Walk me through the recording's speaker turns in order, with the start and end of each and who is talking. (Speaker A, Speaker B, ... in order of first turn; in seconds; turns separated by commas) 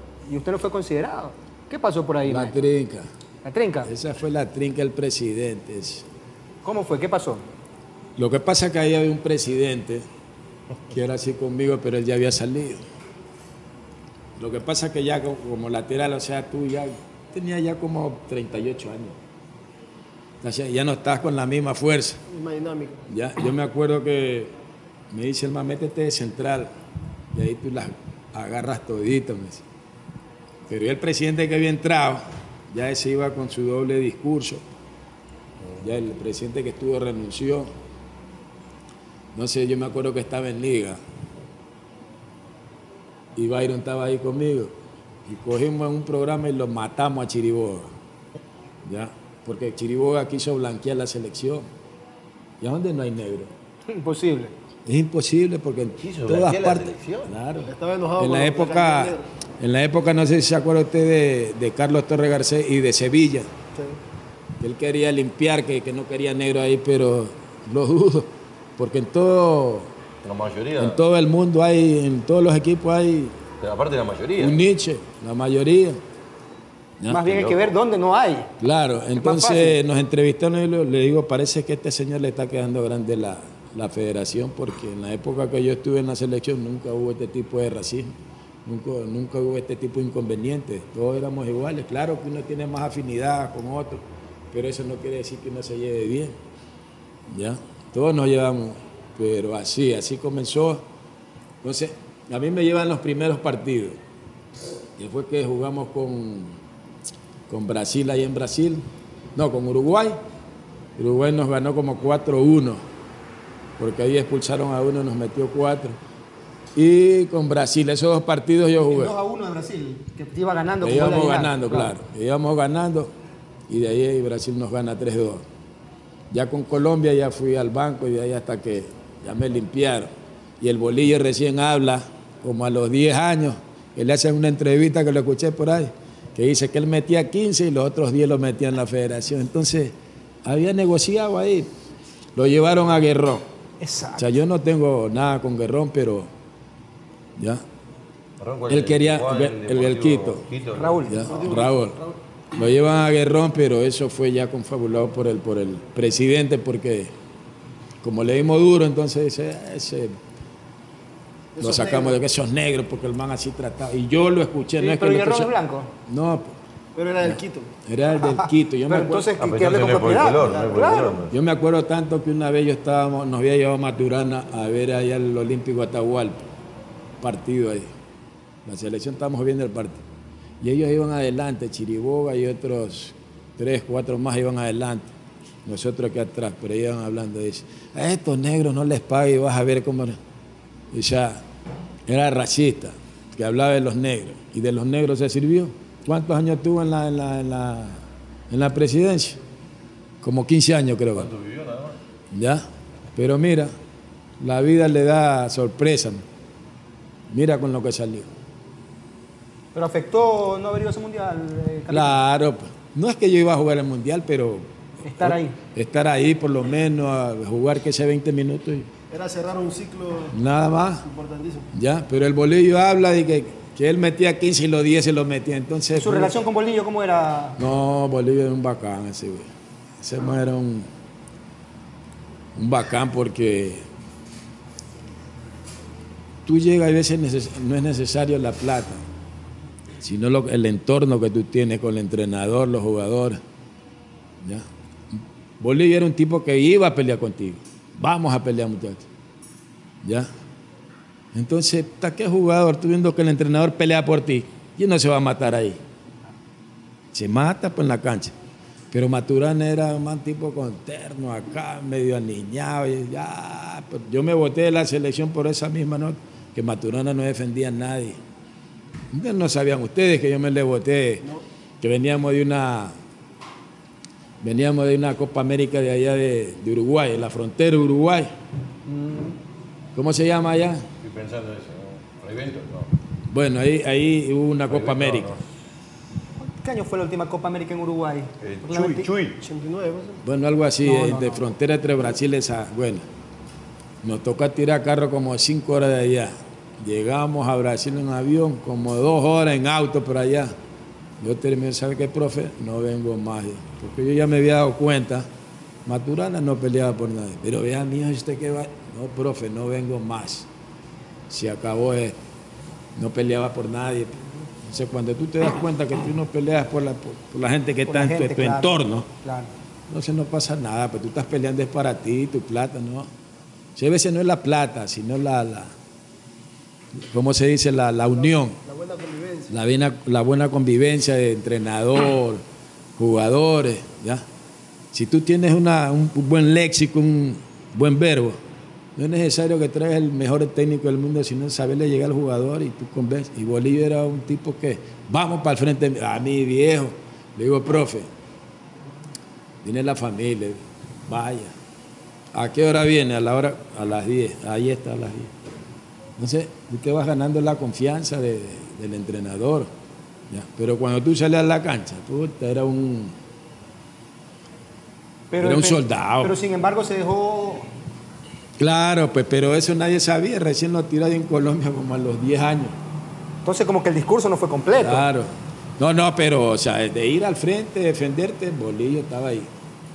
Speaker A: 0.2-2.5, Speaker B: 2.3-3.1, Speaker A: 3.4-3.9, Speaker B: 3.8-6.0, Speaker A: 6.6-7.4, Speaker B: 8.2-10.1, Speaker B: 10.9-12.8, Speaker B: 14.4-19.2, Speaker B: 20.4-22.2, Speaker C: 22.3-23.0, Speaker B: 23.1-24.5, Speaker B: 25.1-26.7, Speaker B: 27.3-29.6, Speaker B: 30.6-34.6, Speaker B: 35.8-37.7, Speaker B: 39.3-41.0, Speaker B: 43.4-44.7, Speaker B: 45.2-47.9, Speaker B: 48.8-51.7, Speaker B: 52.6-53.5, Speaker A: 53.9-54.5, Speaker B: 54.9-63.5, Speaker D: 56.0-57.3, Speaker C: 57.6-59.2, Speaker B: 64.6-69.9, Speaker D: 70.2-71.0, Speaker B: 70.8-73.3, Speaker D: 73.6-74.6, Speaker B: 74.4-76.0, Speaker B: 77.0-77.3, Speaker A: 77.1-78.5, Speaker D: 77.2-77.7, Speaker B: 78.6-96.4, Speaker A: 79.2-79.8, Speaker B: 97.3-100.8, Speaker B: 101.6-104.0, Speaker B: 105.0-106.6, Speaker B: 107.5-110.2, Speaker B: 111.0-112.8, Speaker B: 113.8-116.0, Speaker B: 116.7-119.1, Speaker A: 118.9-121.9, Speaker B: 120.8-123.1, Speaker B: 123.7-125.4, Speaker B: 126.3-141.7, Speaker B: 142.3-143.5, Speaker A: 143.8-144.3, Speaker B: 144.2-146.3, Speaker B: 147.4-147.6, Speaker D: 148.4-151.4, Speaker B: 148.7-150.4, Speaker A: 150.8-151.3, Speaker B: 151.1-152.0, Speaker C: 151.2-152.2, Speaker B: 152.5-157.1, Speaker B: 158.0-160.2, Speaker C: 161.5-162.2, Speaker B: 161.6-165.5, Speaker A: 164.8-165.9, Speaker B: 166.1-166.6, Speaker C: 166.9-167.7, Speaker B: 167.2-169.3, Speaker A: 168.3-171.2, Speaker D: 169.4-171.3, Speaker C: 170.0-170.9, Speaker B: 171.3-176.4, Speaker B: 177.2-177.9, Speaker B: 178.6-180.0, Speaker B: 180.6-185.1, Speaker B: 185.6-190.2, Speaker B: 190.9-191.4, Speaker B: 192.1-199.4, Speaker B: 200.2-201.3, Speaker D: 201.2-202.0, Speaker B: 202.3-203.7, Speaker B: 204.4-206.2, Speaker B: 207.3-208.3, Speaker A: 209.7-212.2, Speaker B: 211.9-214.7, Speaker A: 215.0-215.6, Speaker B: 215.2-218.9, Speaker C: 219.1-220.4, Speaker B: 220.3-221.1, Speaker C: 221.0-221.7, Speaker B: 221.7-226.3, Speaker A: 225.9-227.6, Speaker B: 227.6-230.9, Speaker B: 232.5-233.8, Speaker B: 236.4-239.0, Speaker B: 240.0-243.4, Speaker B: 244.4-249.0, Speaker B: 250.0-250.3, Speaker B: 251.3-255.8, Speaker B: 257.1-258.3, Speaker B: 258.9-268.2, Speaker B: 269.1-271.3, Speaker B: 271.8-272.9, Speaker B: 274.4-278.3, Speaker A: 278.9-279.4, Speaker B: 279.9-280.9, Speaker D: 281.0-282.9, Speaker B: 283.3-285.3, Speaker D: 284.7-285.4, Speaker A: 286.4-289.1, Speaker D: 288.4-289.4, Speaker C: 289.4-290.2, Speaker B: 290.2-293.0, Speaker A: 290.8-291.4, Speaker B: 294.0-300.5, Speaker B: 301.2-305.3, Speaker B: 305.8-310.5, Speaker B: 311.3-312.2, Speaker B: 312.9-319.1, Speaker A: 317.9-319.5, Speaker B: 319.9-323.1, Speaker B: 323.8-325.7, Speaker B: 326.9-328.6, Speaker C: 328.1-329.5, Speaker B: 329.5-332.4, Speaker B: 333.0-334.2, Speaker B: 334.9-338.4, Speaker B: 338.9-348.1, Speaker B: 349.6-351.5, Speaker B: 352.3-355.3, Speaker B: 356.2-359.7, Speaker B: 360.3-363.1, Speaker A: 365.3-367.7, Speaker B: 365.4-366.3, Speaker B: 368.6-372.8, Speaker A: 373.4-375.0, Speaker B: 374.8-379.5